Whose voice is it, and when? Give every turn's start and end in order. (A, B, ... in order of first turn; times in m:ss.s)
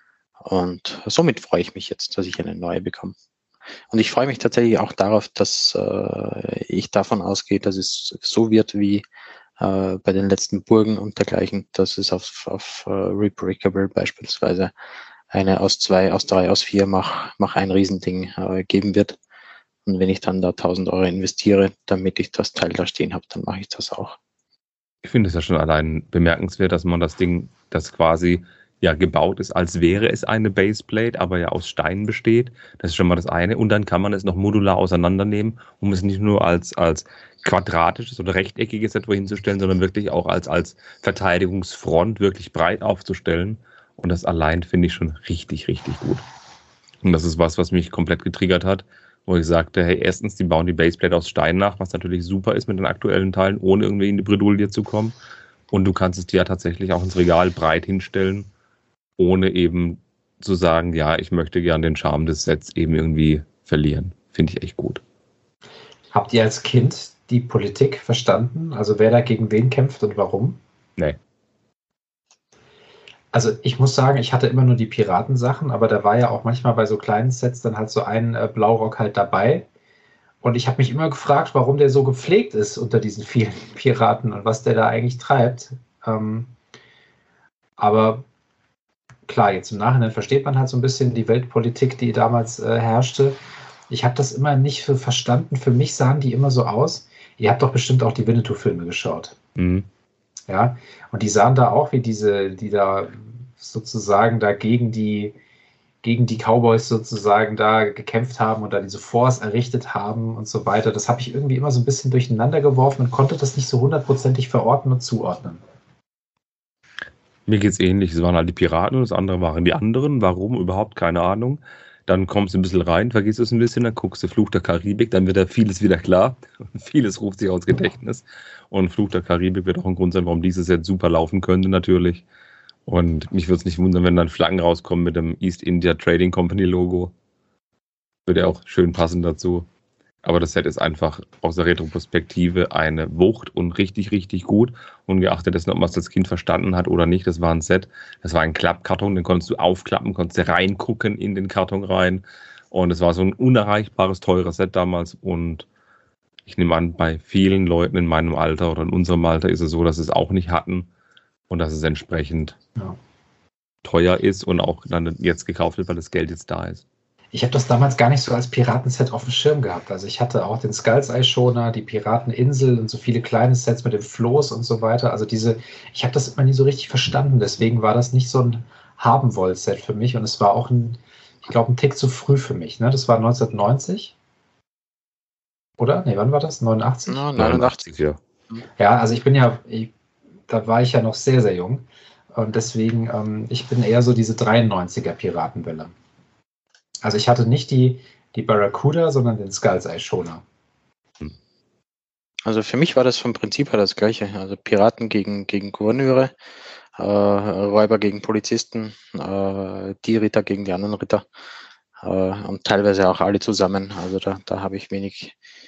0:00.4-0:03.1 A
0:03.9-0:09.0 A
0:09.6-0:14.7 A
0:15.3-0:19.2 A
0:19.8-0:24.2 A
0:25.0-0:46.2 B
0:47.0-0:55.1 B
0:55.7-0:58.5 B
0:59.2-1:05.0 B
1:06.1-1:10.6 C
1:13.3-1:19.7 C
1:20.4-1:26.5 C
1:27.8-1:28.2 C
1:29.3-1:39.3 C
1:39.6-1:39.9 B
1:40.5-1:45.4 C
1:46.0-1:55.6 C
1:57.5-2:12.2 B
2:12.9-2:17.1 B
2:18.3-2:19.7 B
2:20.2-2:35.6 B
2:36.5-2:40.9 B
2:41.5-2:42.6 B
2:43.8-2:46.8 B
2:47.3-3:04.1 C
3:05.8-3:07.2 C
3:07.1-3:07.9 A
3:07.4-3:08.2 B
3:08.8-3:09.9 C
3:10.5-3:15.9 C
3:17.0-3:20.4 C
3:22.4-3:26.3 A
3:27.0-3:31.2 A
3:32.0-3:35.4 A